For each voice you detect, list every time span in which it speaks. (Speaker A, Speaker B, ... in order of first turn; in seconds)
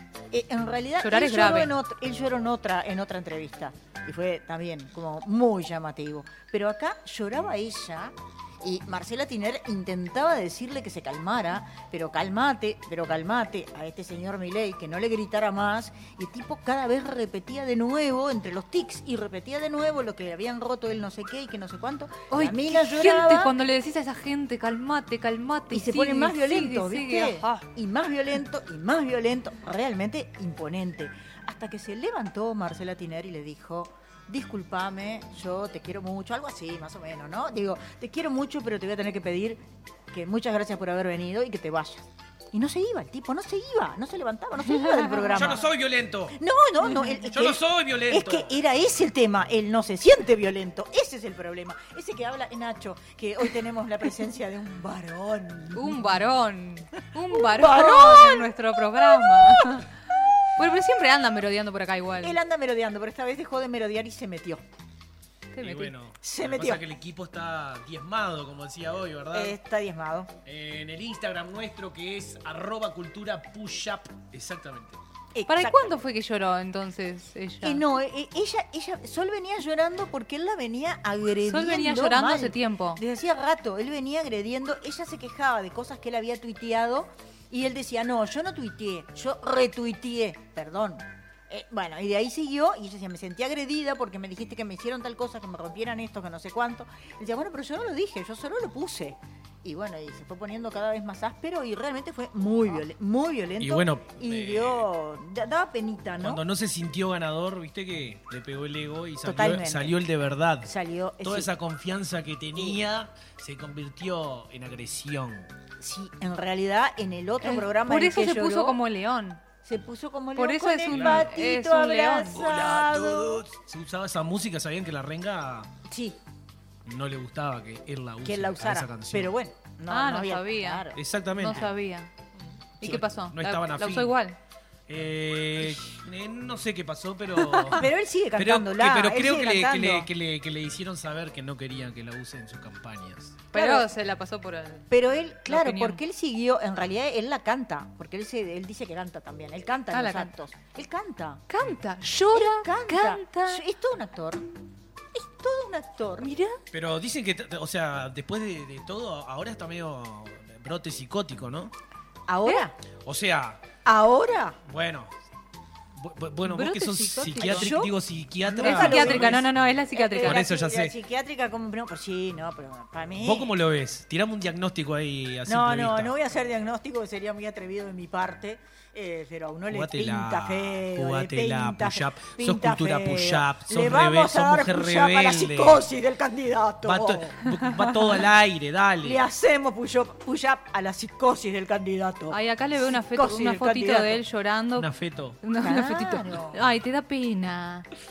Speaker A: 0.3-23.5, 25.7-45.6, 46.4-56.2, 57.3-58.5, 59.2-59.6, 62.2-64.6, 66.2-66.8, 69.3-70.3, 75.3-75.9, 77.6-106.4, 109.2-109.9, 110.6-111.5, 115.8-118.8, 119.6-123.4, 125.9-126.2, 128.2-130.9, 137.7-140.1, 143.5-143.9, 144.9-151.4, 152.3-154.4, 155.1-156.3, 162.3-162.7, 163.8-164.6, 167.4-173.5, 175.5-187.4, 189.0-194.2, 195.6-196.6
Speaker B: 1.0-1.7, 22.3-27.6, 55.7-59.9, 60.6-62.4, 65.5-65.9, 75.5-77.8, 81.4-83.0, 117.4-119.4, 120.3-122.4, 129.9-130.8, 131.4-132.1, 132.8-134.4, 137.4-137.8, 143.5-144.9, 145.5-146.0, 149.9-150.3, 151.5-153.6, 156.2-156.6, 166.4-167.7, 168.6-170.4, 192.3-194.9, 195.4-197.9
Speaker C: 45.3-46.4, 47.3-48.5, 65.6-69.6, 70.4-75.0, 103.6-104.9, 106.2-110.7, 111.2-115.5, 120.9-121.3, 122.3-125.7, 126.8-129.3, 130.9-131.7, 132.8-134.1, 134.9-137.8, 138.4-143.4, 156.7-161.7, 163.0-163.6, 164.6-165.1, 165.9-169.4, 170.2-170.9, 173.2-176.1, 179.7-185.9, 186.8-189.2, 194.8-195.4